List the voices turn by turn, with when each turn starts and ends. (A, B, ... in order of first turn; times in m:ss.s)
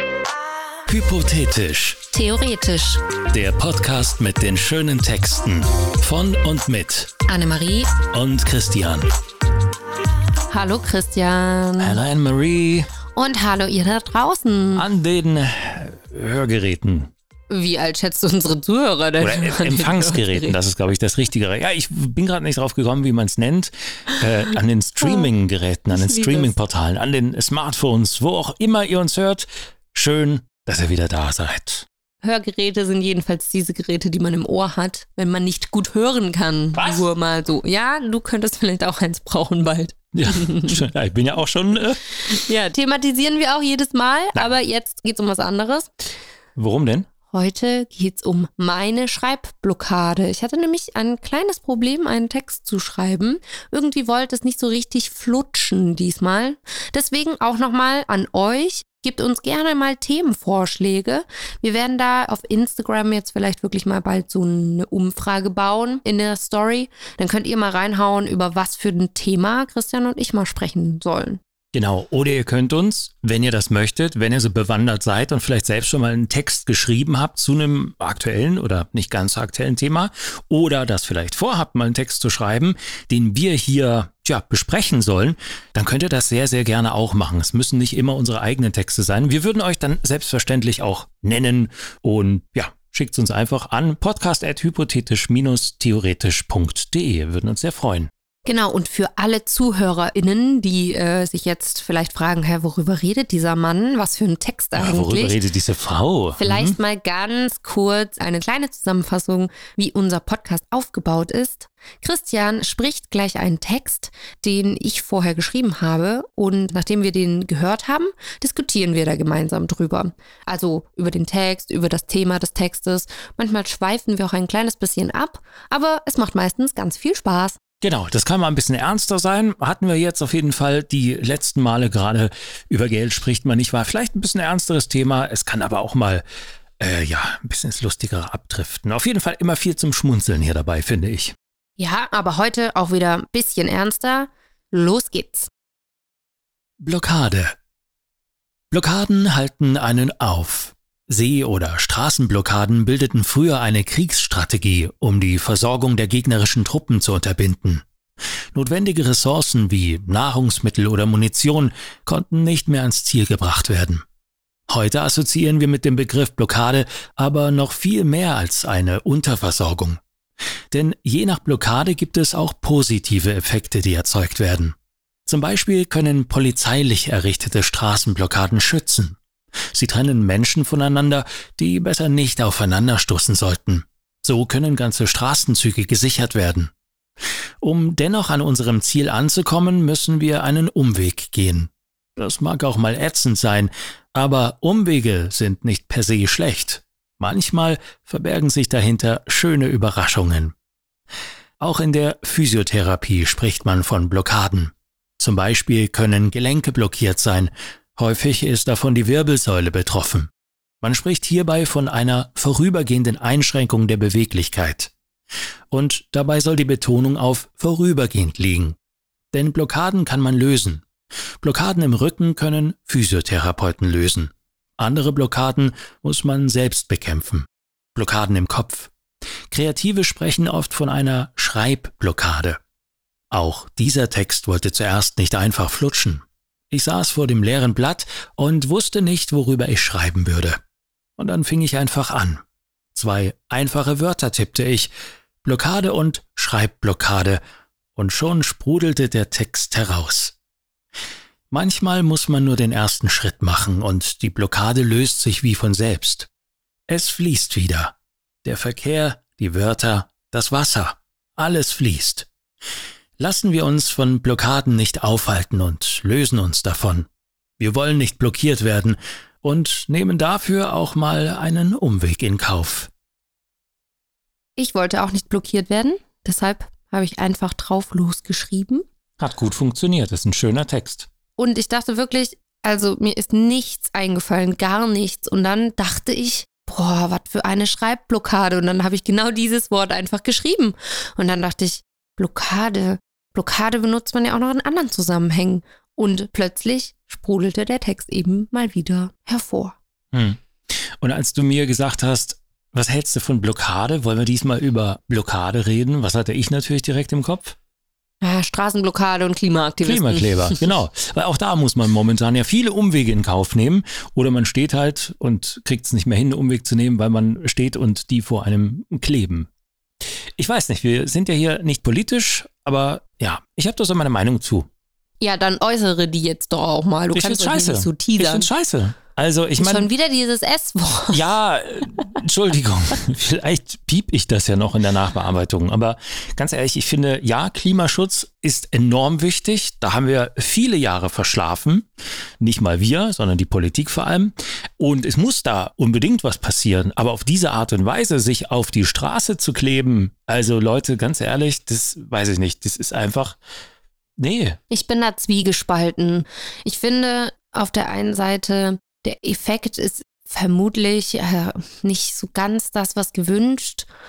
0:00.9-0:02.0 A
0:02.1-0:03.0 B
0:03.3-0:07.2 A
0:07.3-0:07.9 B
0:08.1-0:09.1 A
0:10.5-0:12.0 B
0:11.8-0:12.9 A
0:13.1-0:14.8 B
0:14.7-0:17.1 A
0:17.5-0:20.6 B
0:19.2-0:31.9 A
0:25.9-0:26.5 B
0:32.2-0:40.8 B
0:36.7-0:37.0 A
0:40.1-0:42.0 A
0:42.2-0:45.9 B
0:46.6-0:47.1 A
0:47.3-1:11.4 B
1:11.7-1:38.1 A
1:38.4-1:45.4 B
1:44.8-1:46.8 A
1:46.4-2:07.6 B
2:07.8-2:16.2 A
2:16.8-2:21.3 A
2:21.8-2:25.5 B
2:26.8-2:27.5 A
2:28.7-2:37.8 A
2:38.5-2:44.0 A
2:44.7-2:50.0 A
2:50.7-2:54.7 A
2:55.2-2:59.2 A
2:59.7-3:06.7 A
3:07.6-3:20.5 A
3:21.6-3:30.3 A
3:30.8-3:34.9 A
3:35.7-3:38.8 A
3:39.3-3:40.8 A
3:41.4-3:48.9 A
3:49.5-3:52.6 A
3:53.3-4:00.6 A
4:01.2-4:02.4 A
4:02.9-4:04.9 A
4:05.4-4:07.4 A
4:08.0-4:10.3 A
4:11.5-4:16.3 A
4:16.9-4:22.3 A
4:23.2-4:27.1 A
4:27.6-4:32.9 A
4:34.6-4:38.8 B
4:39.2-4:41.1 A
4:41.4-4:59.8 B
5:00.1-5:07.6 A
5:08.2-5:10.7 B
5:09.8-5:19.5 A
5:20.4-5:24.7 A
5:25.2-5:28.5 B
5:27.1-5:29.9 A
5:29.6-5:31.3 B
5:31.1-5:41.9 A
5:42.4-5:53.4 A
5:54.2-5:54.6 A
5:54.7-6:03.9 B